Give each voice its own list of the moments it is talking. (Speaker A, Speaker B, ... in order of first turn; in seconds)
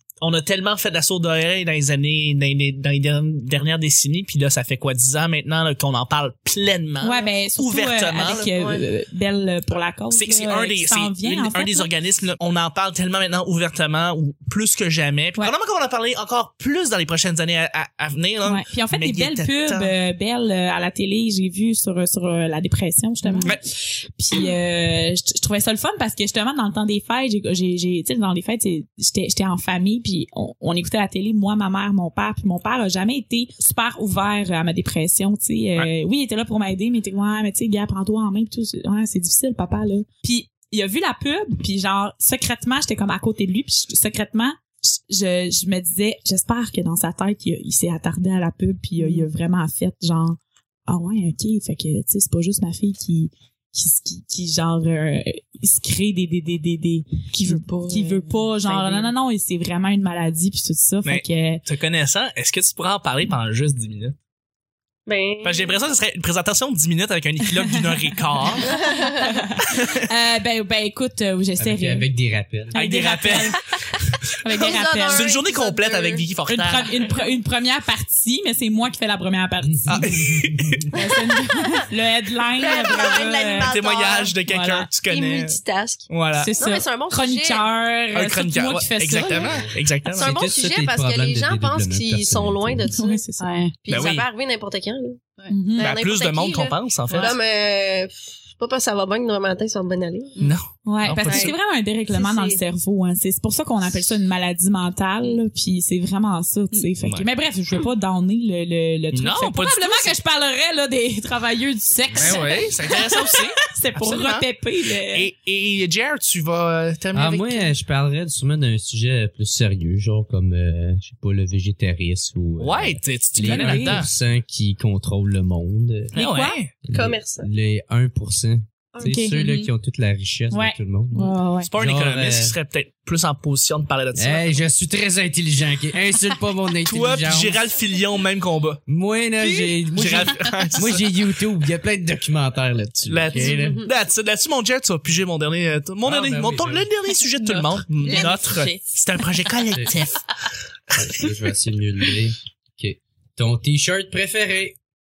Speaker A: 0.2-8.5, 10.1-19.9, 61.0-64.1, 65.4-68.8, 69.6-70.1, 72.7-73.7, 75.1-77.0, 79.9-80.9, 83.6-86.5, 88.1-90.3, 93.9-94.3, 95.8-97.3, 100.4-101.5, 109.1-110.2, 112.1-114.5, 115.1-117.7, 122.6-124.1, 126.1-126.7, 131.6-134.6, 136.8-138.8, 139.6-141.0, 143.1-150.3
Speaker B: 7.0-11.9, 18.4-61.6, 68.7-72.1, 72.7-73.7, 74.4-75.3, 76.5-80.0, 80.9-83.7, 84.5-84.9, 86.4-89.6, 92.9-93.5, 95.5-95.9, 100.8-115.3, 123.4-124.0, 126.1-126.6, 129.0-129.7, 130.5-131.7
Speaker C: 8.3-8.8, 65.0-65.8, 68.7-69.1, 74.5-76.3, 82.6-84.3, 85.1-87.6, 90.1-93.2, 93.8-95.2, 95.7-100.3, 101.2-101.5, 102.1-102.6, 126.9-127.5, 128.9-129.2, 143.3-143.9
Speaker D: 23.2-23.5, 49.0-49.3, 57.3-59.1, 93.4-93.8, 147.4-148.9
Speaker E: 71.6-72.7, 79.7-80.9, 89.3-92.9, 117.1-126.1, 126.8-132.5, 134.1-137.6, 138.9-143.8, 146.0-146.9, 150.9-154.8